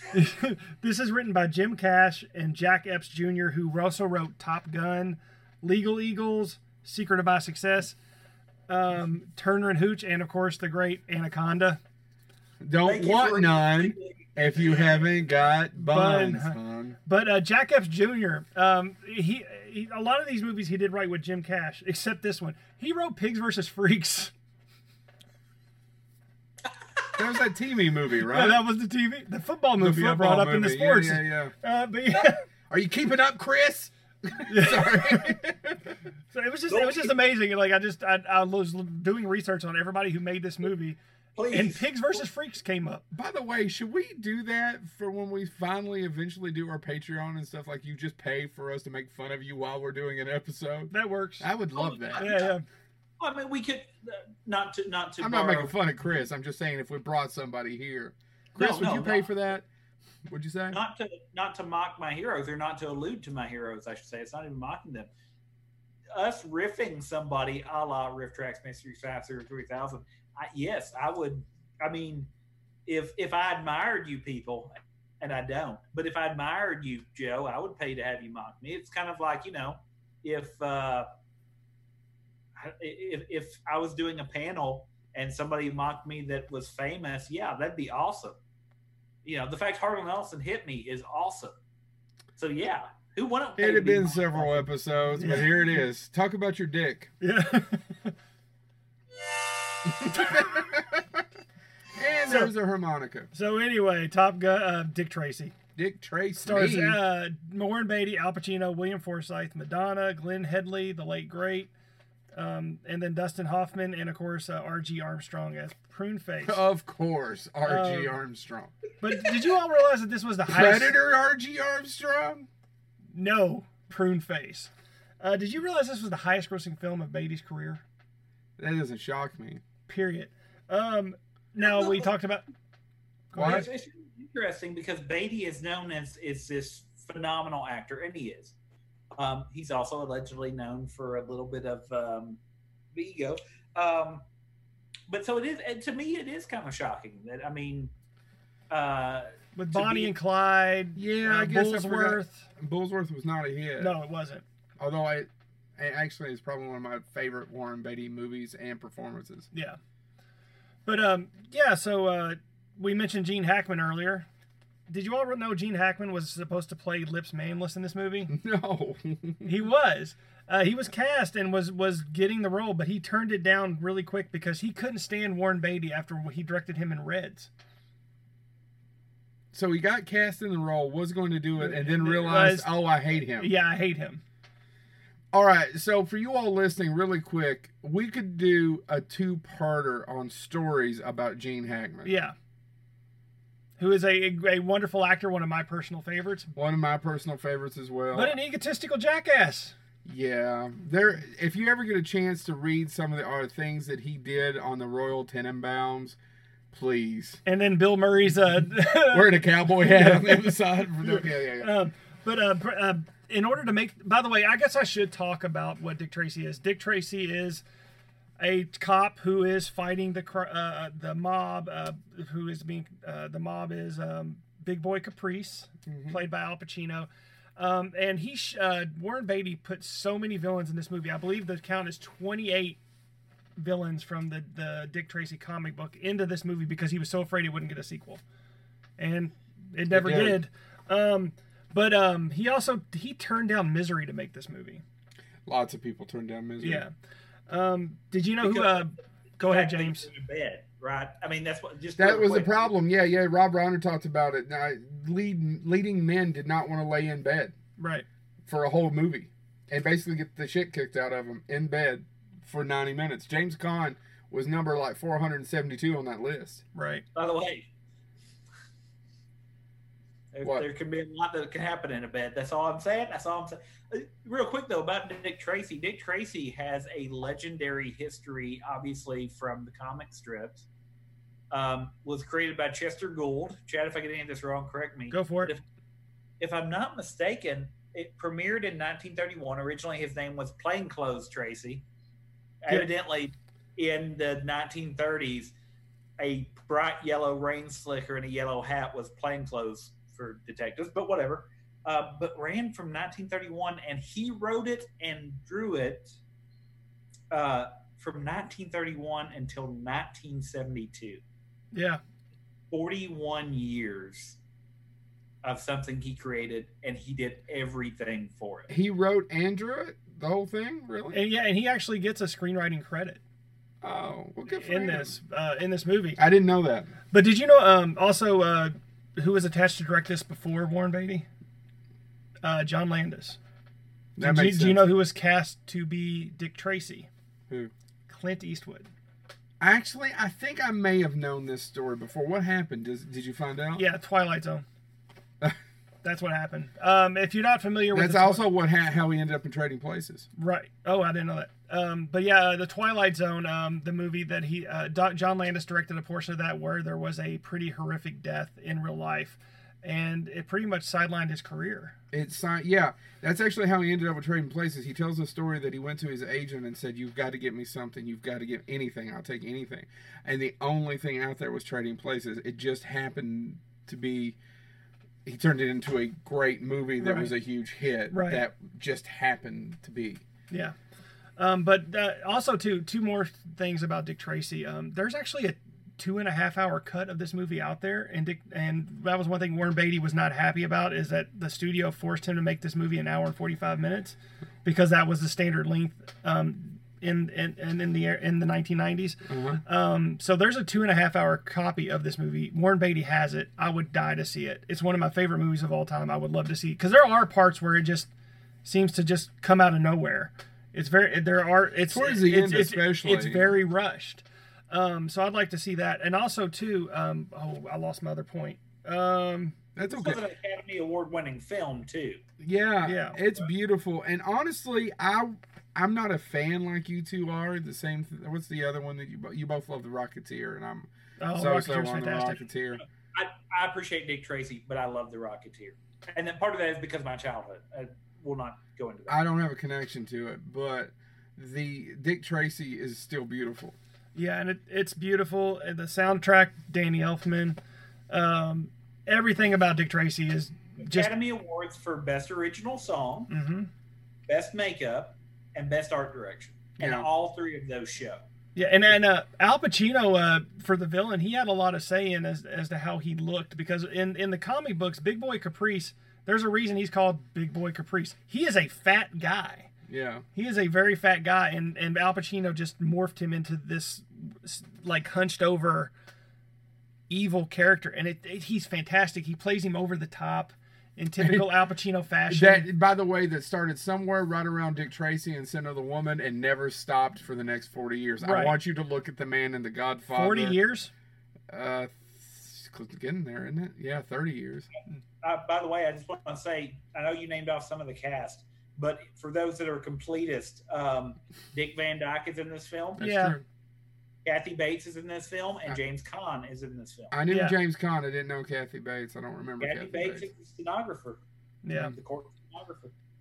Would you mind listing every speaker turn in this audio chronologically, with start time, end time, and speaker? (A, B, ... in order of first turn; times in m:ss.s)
0:00.1-0:07.9 A
0:08.7-0:11.8 A
0:12.6-0:17.0 B
0:12.8-0:15.1 C
0:15.8-0:24.3 A
0:27.2-0:28.6 B
0:28.2-0:32.4 A
0:29.8-0:31.5 B
0:32.7-0:35.8 B
0:34.5-0:35.3 A
0:36.3-0:41.0 A
0:36.7-0:37.1 C
0:41.4-0:42.2 C
0:41.5-0:43.0 A
0:43.1-0:52.3 B
0:50.9-0:51.5 A
0:51.7-0:52.5 C
0:52.2-0:52.6 A
0:53.2-0:55.7 C
0:55.2-0:59.7 B
0:58.6-0:59.3 C
1:00.3-1:00.8 B
1:00.7-1:05.1 C
1:06.1-1:12.3 C
1:12.8-1:21.1 C
1:22.6-1:28.4 C
1:29.2-1:31.5 C
1:32.4-1:34.7 C
1:33.6-1:37.1 B
1:35.2-1:35.7 A
1:37.2-1:38.1 A
1:39.8-1:41.2 B
1:41.9-1:43.3 B
1:43.3-1:45.5 A
1:45.8-1:47.0 B
1:46.4-1:51.7 A
1:52.3-1:56.6 A
1:56.4-1:58.7 B
1:57.6-1:58.1 A
1:59.0-2:00.9 A
2:00.5-2:02.5 B
2:03.1-2:04.7 A
2:05.2-2:07.8 A
2:08.6-2:09.6 B
2:09.9-2:12.4 A
2:11.6-2:12.1 C
2:13.3-2:13.7 A
2:13.3-2:13.7 B
2:13.4-2:18.5 C
2:19.2-2:22.4 C
2:22.9-2:24.2 C
2:25.1-2:27.9 C
2:28.7-2:30.1 C
2:29.6-2:32.4 A
2:31.0-2:33.9 B
2:33.8-2:34.4 A
2:34.8-2:39.5 B
2:39.5-2:39.8 A
2:40.8-2:44.2 A
2:44.9-2:48.3 A
2:48.3-2:49.6 B
2:49.4-2:57.5 A
2:59.5-3:03.5 B
3:01.6-3:02.7 A
3:03.2-3:04.2 A
3:05.3-3:12.1 B
3:12.0-3:12.3 A
3:13.8-3:16.5 A
3:16.5-3:18.4 B
3:18.1-3:19.7 A
3:20.0-3:26.2 B
3:26.7-3:27.4 B
3:27.4-3:37.6 A
3:29.1-3:31.7 B
3:38.4-3:52.8 A
3:45.9-3:46.2 B
3:53.6-3:58.2 A
3:59.0-4:04.8 A
3:59.9-4:00.4 B
4:05.4-4:06.8 B
4:06.6-4:06.9 A
4:07.5-4:10.1 A
4:08.4-4:08.9 C
4:09.4-4:12.7 C
4:12.0-4:17.5 B
4:17.8-4:18.0 A
4:18.4-4:26.6 B
4:26.7-4:27.0 A
4:27.1-4:27.6 C
4:30.3-4:40.7 C
4:41.5-4:45.6 C
4:45.1-4:45.5 A
4:46.4-4:51.8 C
4:52.6-4:55.5 C
4:56.2-5:06.2 C
5:07.3-5:11.2 C
5:11.7-5:12.0 A
5:12.7-5:14.4 C
5:15.4-5:18.7 C
5:18.7-5:21.2 B
5:21.1-5:23.2 A
5:23.8-5:25.2 B
5:24.5-5:26.2 A
5:26.2-5:26.9 B
5:27.1-5:31.2 A
5:32.4-5:33.4 A
5:34.2-5:34.9 B
5:34.2-5:37.1 A
5:38.1-5:38.9 A
5:39.6-5:43.8 B
5:43.8-5:44.6 A
5:46.0-5:48.4 A
5:47.9-5:50.3 B
5:50.4-6:01.9 A
6:02.1-6:14.4 B
6:15.2-6:20.2 B
6:17.0-6:17.3 A
6:18.1-6:18.4 A
6:21.4-6:48.1 A
6:39.3-6:39.6 B
6:48.6-6:59.6 A
6:51.9-6:53.5 B
6:59.8-7:00.2 B
6:59.8-7:02.2 C
7:02.4-7:12.8 B
7:02.8-7:03.2 A
7:11.2-7:12.4 A
7:12.8-7:19.2 C
7:19.1-7:23.7 B
7:24.1-7:27.6 A
7:28.1-7:31.1 A
7:30.8-7:33.3 C
7:33.3-7:33.7 A
7:34.3-7:38.2 C
7:36.8-7:37.1 B
7:38.6-7:49.7 A
7:49.9-7:50.2 B
7:50.3-7:55.9 A
7:57.1-8:02.7 A
8:01.2-8:01.4 B
8:02.3-8:10.6 B
8:08.2-8:08.5 A
8:10.1-8:10.9 A
8:11.5-8:14.7 B
8:15.2-8:23.1 C
8:23.0-8:23.4 B
8:23.0-8:23.4 A
8:24.2-8:27.1 C
8:27.1-8:30.3 B
8:27.3-8:27.5 A
8:29.6-8:31.2 C
8:31.6-8:31.9 A
8:31.8-8:32.9 C